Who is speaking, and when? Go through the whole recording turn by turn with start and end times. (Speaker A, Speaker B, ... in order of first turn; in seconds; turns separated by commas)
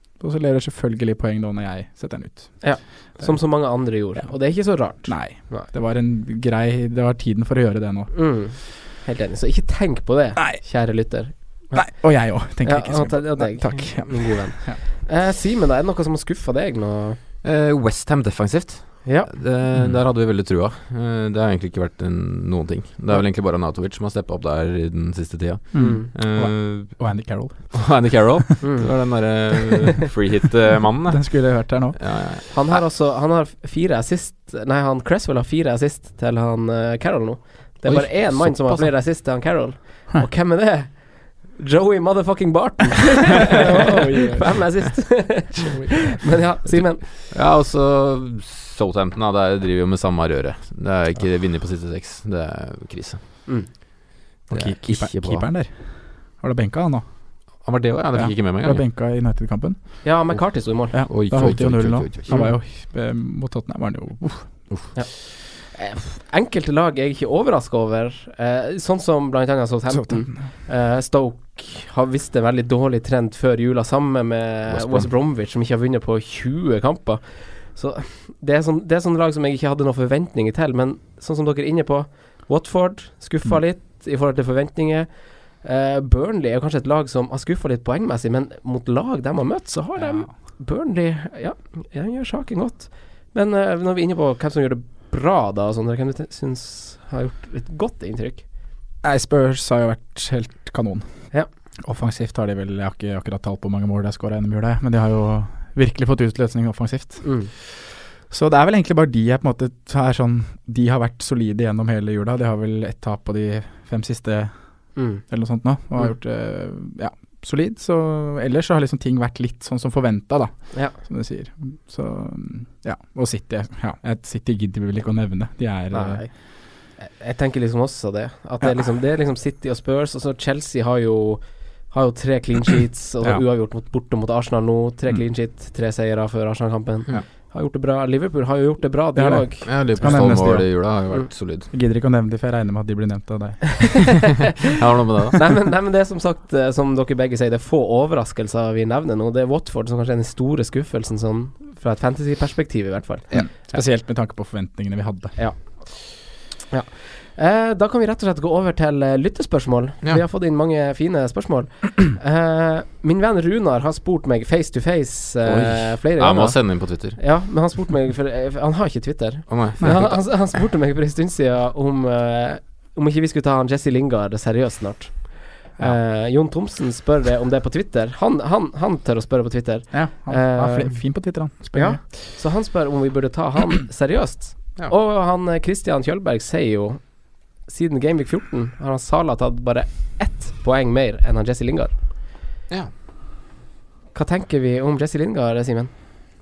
Speaker A: 0.2-3.4, Speaker B: 2.6-5.7, Speaker A: 5.0-8.1, Speaker B: 8.1-11.9, Speaker A: 10.4-10.6, Speaker A: 11.7-14.8, Speaker B: 12.6-17.2, Speaker C: 17.4-27.2, Speaker B: 19.1-19.3, Speaker A: 25.7-28.2, Speaker B: 25.8-26.1, Speaker C: 27.7-32.8, Speaker B: 28.6-28.9, Speaker A: 31.1-32.2, Speaker B: 32.5-47.0, Speaker C: 37.9-39.0, Speaker A: 43.5-44.5, Speaker C: 47.0-53.2, Speaker B: 53.5-53.7, Speaker C: 54.5-55.5, Speaker A: 54.5-57.1, Speaker C: 57.6-58.8, Speaker A: 58.1-60.2, Speaker B: 60.0-61.5, Speaker A: 60.9-64.5, Speaker C: 61.1-62.4, Speaker B: 65.0-98.4, Speaker A: 69.9-70.4, Speaker C: 74.7-75.1, Speaker A: 99.0-101.3, Speaker A: 101.8-114.5, Speaker B: 107.2-107.5, Speaker B: 115.0-115.2, Speaker A: 115.2-126.2, Speaker B: 125.9-140.2, Speaker A: 139.2-140.9, Speaker C: 139.7-141.7, Speaker A: 141.7-144.4, Speaker C: 144.7-145.5, Speaker B: 145.3-153.7, Speaker A: 153.3-155.3, Speaker B: 156.7-181.0, Speaker C: 165.4-167.2, Speaker C: 169.5-170.2, Speaker A: 179.9-182.0, Speaker B: 181.7-192.0, Speaker B: 194.1-195.9